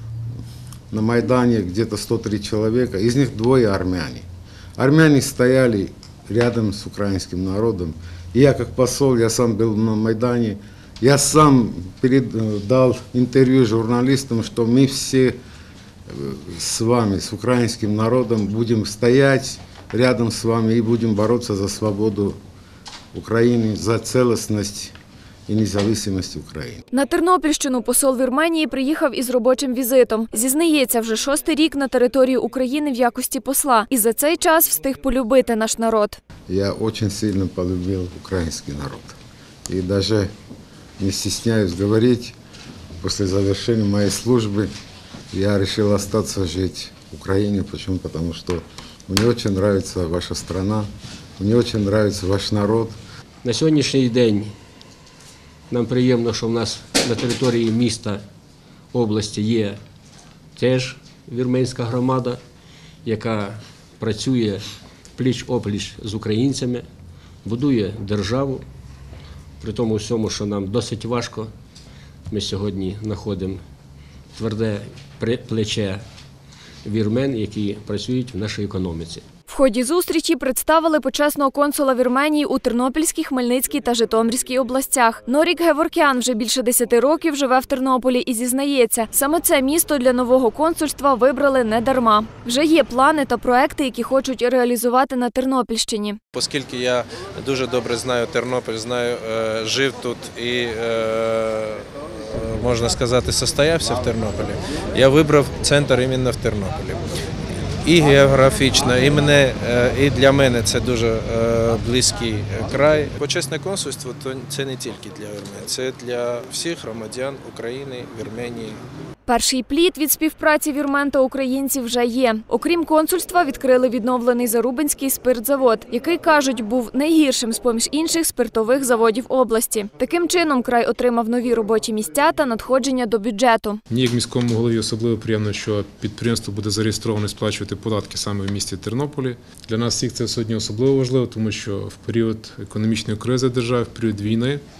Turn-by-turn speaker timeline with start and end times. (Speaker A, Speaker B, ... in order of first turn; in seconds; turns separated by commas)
Speaker A: 0.9-4.3, Speaker A: 4.8-15.4, Speaker A: 16.1-22.4, Speaker A: 23.1-24.9, Speaker A: 25.5-26.8, Speaker B: 26.9-36.2, Speaker A: 36.5-39.1, Speaker A: 39.7-40.3, Speaker A: 41.0-42.4, Speaker A: 43.0-44.7, Speaker A: 45.3-53.0, Speaker C: 53.4-54.5, Speaker C: 55.7-58.2, Speaker C: 58.9-59.8, Speaker C: 60.6-62.4, Speaker C: 63.0-64.6, Speaker C: 65.2-66.8, Speaker C: 67.4-68.6, Speaker C: 69.6-71.5, Speaker C: 72.3-73.6, Speaker C: 74.3-76.0, Speaker C: 76.8-79.2, Speaker B: 79.5-96.2, Speaker D: 96.3-107.1, Speaker D: 107.8-118.8, Speaker B: 119.3-133.8, Speaker E: 133.9-144.6